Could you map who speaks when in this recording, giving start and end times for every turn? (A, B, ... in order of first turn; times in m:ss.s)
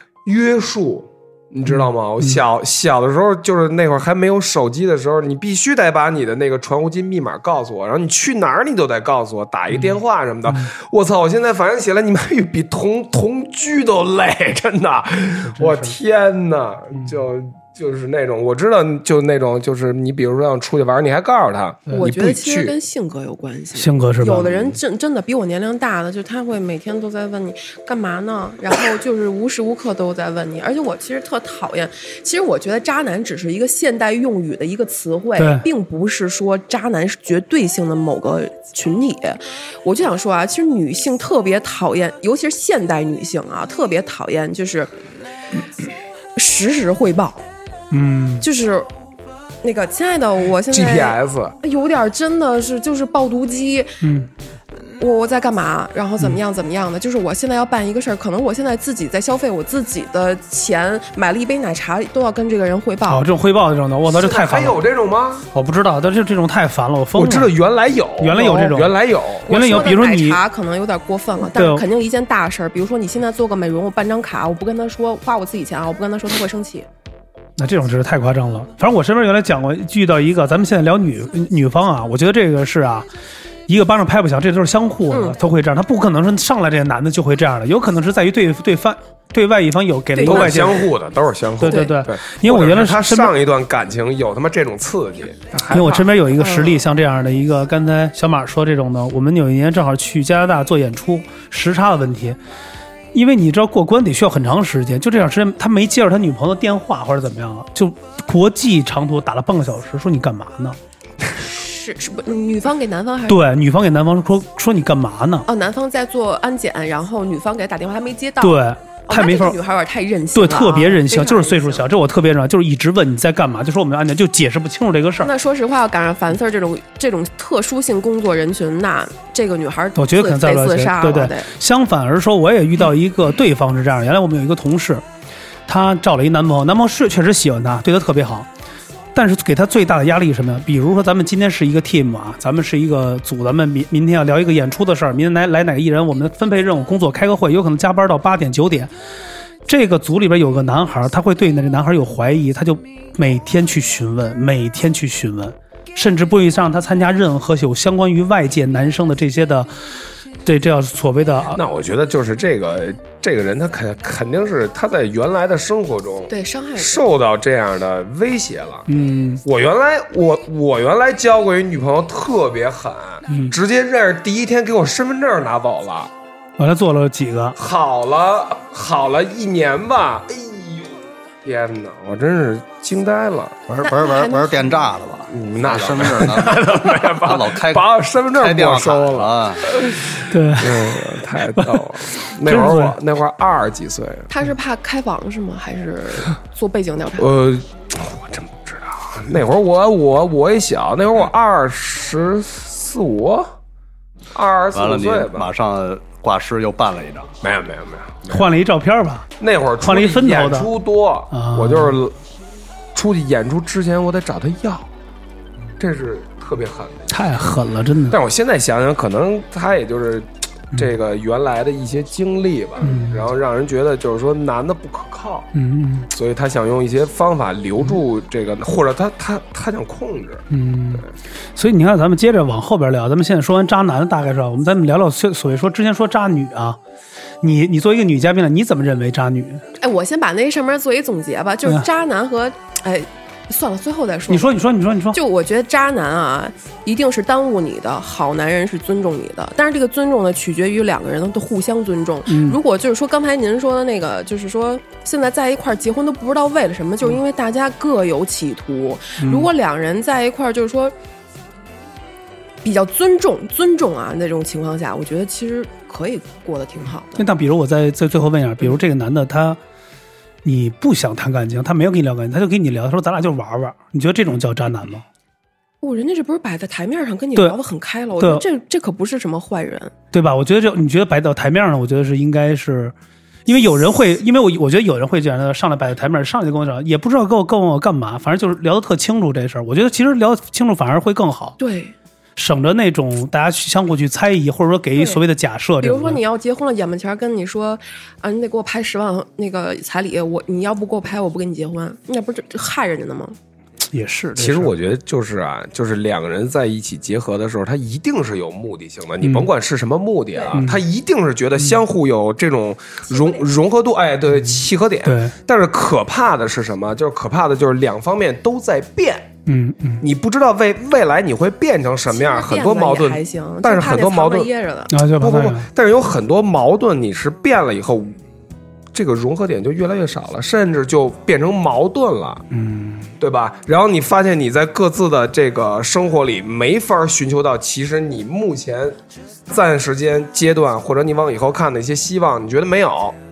0:00.2-0:22.8 A
0:15.6-0:15.9 B
0:22.0-0:44.9 C
0:23.8-0:24.5 B
0:35.4-0:35.7 B
0:46.4-0:47.4 C
0:47.9-0:48.4 B
0:48.4-0:48.9 C
0:49.6-0:54.0 C
0:50.7-0:51.6 A
0:54.0-0:54.3 B
0:55.0-1:03.3 C
1:03.1-1:04.8 B
1:04.1-1:05.5 A
1:05.5-1:07.6 B
1:07.2-1:09.7 A
1:08.2-1:09.0 B
1:09.5-1:16.9 C
1:09.5-1:10.4 B
1:11.5-1:11.8 B
1:17.6-1:23.1 B
1:23.7-1:30.9 B
1:25.1-1:25.4 C
1:30.2-1:30.6 C
1:30.2-1:36.1 A
1:31.6-1:33.3 B
1:31.7-1:31.9 C
1:35.7-1:42.4 B
1:36.4-1:36.8 C
1:43.1-1:50.8 B
1:51.5-1:53.4 C
1:53.3-1:55.5 B
1:55.5-2:01.8 C
1:58.4-1:59.6 B
2:00.3-2:05.3 B
2:05.2-2:11.5 C
2:10.0-2:15.0 B
2:15.7-2:18.5 B
2:19.2-2:28.9 B
2:29.7-2:39.7 B
2:40.4-2:41.6 B
2:41.5-2:48.9 A
2:46.3-2:47.0 C
2:48.9-2:49.4 B
2:49.4-2:56.1 A
2:53.3-2:53.6 B
2:56.6-2:57.6 B
2:57.6-3:03.6 A
3:03.7-3:09.7 D
3:03.8-3:04.9 C
3:05.3-3:14.3 A
3:10.3-3:11.7 B
3:12.4-3:13.0 B
3:14.3-3:17.3 C
3:17.2-3:23.5 A
3:24.3-3:25.5 A
3:24.7-3:27.3 D
3:27.4-3:28.5 A
3:28.3-3:29.3 B
3:29.4-3:32.2 A
3:29.8-3:30.7 B
3:31.3-3:31.9 B
3:33.0-3:34.9 A
3:35.8-3:37.2 A
3:37.1-3:38.2 B
3:38.1-3:45.5 A
3:42.8-3:43.2 B
3:45.5-3:46.1 B
3:46.1-3:50.4 A
3:50.5-3:56.8 B
3:57.4-3:59.6 B
3:59.8-4:04.5 C
4:04.3-4:05.2 B
4:05.1-4:20.9 C
4:12.3-4:12.6 B
4:19.2-4:19.5 B
4:22.6-4:27.2 C
4:27.2-4:29.6 B
4:30.4-4:35.0 B
4:35.8-4:39.9 C
4:38.2-4:38.4 B
4:40.1-4:42.9 B
4:43.5-4:51.6 B
4:51.6-4:51.9 C
4:52.4-4:56.2 B
4:55.0-4:55.2 C
4:55.8-5:03.4 C
5:03.9-5:04.7 B
5:04.4-5:19.3 A
5:09.2-5:09.5 B
5:10.3-5:10.6 C
5:10.5-5:10.8 B
5:13.1-5:13.4 C
5:15.0-5:15.4 B
5:19.5-5:20.0 B
5:20.0-5:24.5 A
5:22.1-5:25.0 C
5:24.9-5:25.7 B
5:25.2-5:28.2 A
5:28.9-5:32.4 A
5:32.5-5:33.1 B
5:33.2-5:43.2 A